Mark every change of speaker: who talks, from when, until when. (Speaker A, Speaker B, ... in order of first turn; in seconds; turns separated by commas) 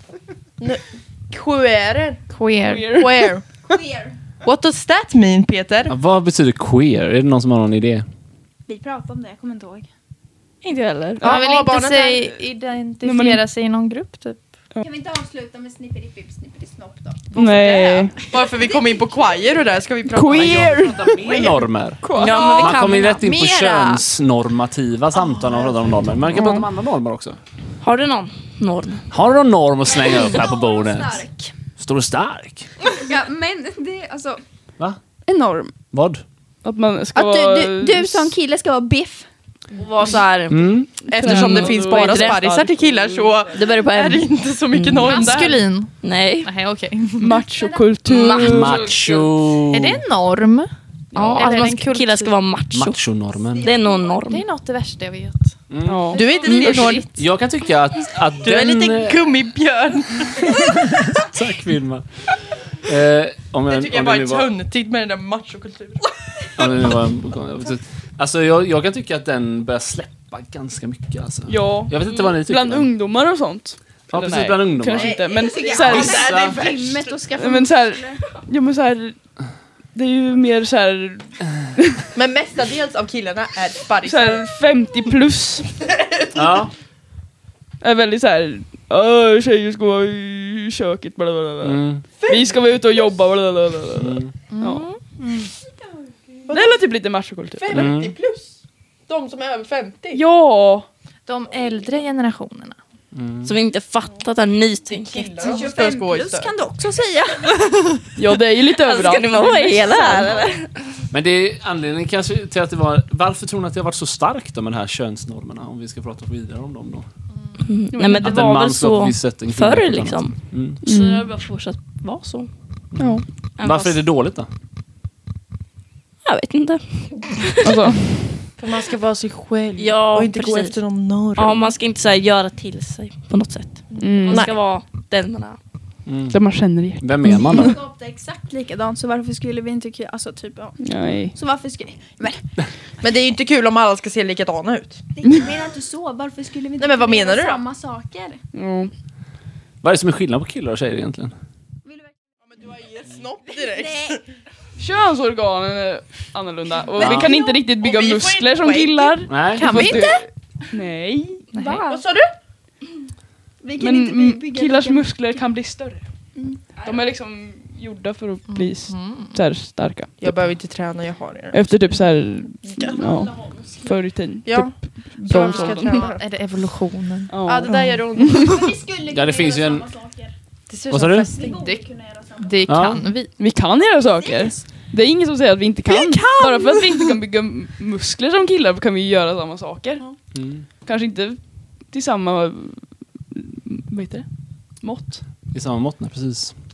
Speaker A: 0.6-2.2, Speaker B: 2.3-3.0, Speaker C: 2.6-3.3, Speaker A: 2.9-3.5, Speaker D: 3.7-4.2, Speaker A: 4.4-5.9, Speaker E: 5.9-8.0, Speaker D: 8.7-9.9, Speaker F: 10.6-11.2, Speaker C: 11.2-11.5, Speaker A: 11.2-12.3, Speaker B: 11.2-14.4, Speaker C: 13.0-13.4, Speaker D: 14.8-19.7, Speaker C: 17.3-18.1, Speaker A: 17.3-21.6, Speaker C: 20.1-21.5, Speaker E: 20.3-22.1, Speaker C: 22.0-22.7, Speaker F: 22.1-23.2, Speaker B: 22.5-24.0, Speaker E: 22.6-27.4, Speaker C: 26.3-26.6, Speaker F: 27.8-29.1, Speaker E: 29.1-31.2, Speaker D: 29.9-31.5, Speaker E: 31.8-32.7, Speaker D: 32.9-34.4, Speaker D: 35.2-35.7, Speaker E: 35.9-36.2, Speaker C: 36.6-38.4, Speaker D: 37.1-39.2, Speaker F: 39.8-42.4, Speaker E: 40.5-41.3, Speaker A: 41.0-45.6, Speaker C: 41.2-43.7, Speaker F: 43.5-45.4, Speaker B: 45.0-47.4, Speaker F: 46.0-46.5, Speaker C: 47.2-48.8, Speaker D: 47.3-47.9, Speaker F: 48.0-49.3, Speaker E: 48.3-50.0, Speaker B: 49.7-50.7, Speaker C: 51.1-51.5, Speaker F: 51.1-53.0, Speaker B: 51.3-52.3, Speaker E: 52.7-53.7, Speaker D: 53.5-54.2, Speaker F: 53.6-54.4, Speaker B: 54.2-55.5, Speaker E: 55.7-59.2, Speaker C: 55.9-56.2, Speaker A: 56.1-57.1, Speaker B: 56.1-57.0, Speaker A: 58.4-60.8, Speaker E: 60.5-62.2, Speaker E: 62.8-64.5, Speaker A: 63.7-66.6, Speaker E: 66.6-72.9, Speaker C: 71.5-76.3, Speaker E: 74.1-75.2, Speaker D: 75.0-78.2, Speaker A: 75.0-76.9, Speaker E: 75.8-76.9, Speaker C: 77.4-79.2, Speaker C: 79.9-82.0, Speaker A: 82.1-84.5, Speaker C: 84.0-85.7, Speaker E: 86.3-86.7, Speaker C: 87.8-94.8, Speaker E: 91.6-92.0, Speaker A: 92.2-93.1, Speaker E: 93.9-94.3, Speaker B: 94.5-95.5, Speaker F: 94.7-95.0, Speaker A: 96.5-96.8, Speaker C: 96.5-97.9, Speaker A: 97.5-98.6, Speaker E: 97.7-98.2, Speaker A: 99.1-100.2, Speaker C: 100.1-100.9, Speaker B: 101.2-102.8, Speaker E: 103.1-103.5, Speaker F: 103.4-105.6, Speaker A: 104.9-106.5, Speaker D: 105.4-107.7, Speaker C: 108.2-110.5, Speaker F: 108.8-110.7, Speaker E: 111.1-117.1, Speaker F: 117.6-122.5, Speaker C: 117.9-118.5, Speaker E: 118.1-120.8, Speaker C: 120.8-121.3, Speaker E: 122.9-124.5, Speaker C: 123.0-123.2, Speaker F: 123.6-124.0, Speaker F: 126.2-127.6, Speaker C: 127.6-128.1, Speaker A: 128.6-131.7, Speaker F: 129.8-130.8, Speaker F: 131.3-135.6, Speaker C: 134.0-134.4, Speaker E: 136.1-136.4, Speaker C: 136.3-137.7, Speaker E: 137.0-137.8, Speaker D: 137.3-142.4, Speaker C: 140.8-141.3, Speaker A: 143.0-145.0, Speaker D: 145.2-148.4, Speaker A: 146.8-147.6, Speaker C: 148.5-148.9, Speaker E: 149.8-151.3, Speaker A: 152.5-154.2, Speaker D: 153.4-154.2, Speaker C: 154.8-161.4, Speaker A: 157.0-159.3, Speaker E: 157.0-157.3, Speaker D: 157.1-157.6, Speaker E: 159.3-159.9, Speaker B: 159.5-160.3, Speaker B: 161.5-161.9, Speaker D: 161.6-162.0, Speaker A: 161.8-162.3, Speaker D: 163.6-165.1, Speaker C: 163.8-166.0, Speaker D: 166.3-166.6, Speaker F: 166.8-167.1, Speaker C: 166.8-170.4, Speaker B: 168.5-169.4, Speaker A: 170.2-172.0, Speaker C: 171.5-176.0, Speaker A: 172.6-172.9, Speaker D: 172.8-174.0, Speaker A: 174.4-176.2, Speaker B: 175.2-177.8, Speaker C: 177.3-178.5, Speaker A: 177.4-178.8, Speaker D: 178.4-180.3, Speaker E: 179.1-179.9, Speaker B: 180.7-181.8, Speaker E: 180.9-181.3, Speaker D: 181.3-182.8, Speaker B: 182.4-183.3, Speaker E: 182.7-183.0, Speaker C: 183.4-190.0, Speaker B: 185.9-186.9, Speaker E: 190.3-190.7, Speaker C: 190.8-195.2, Speaker E: 195.5-196.5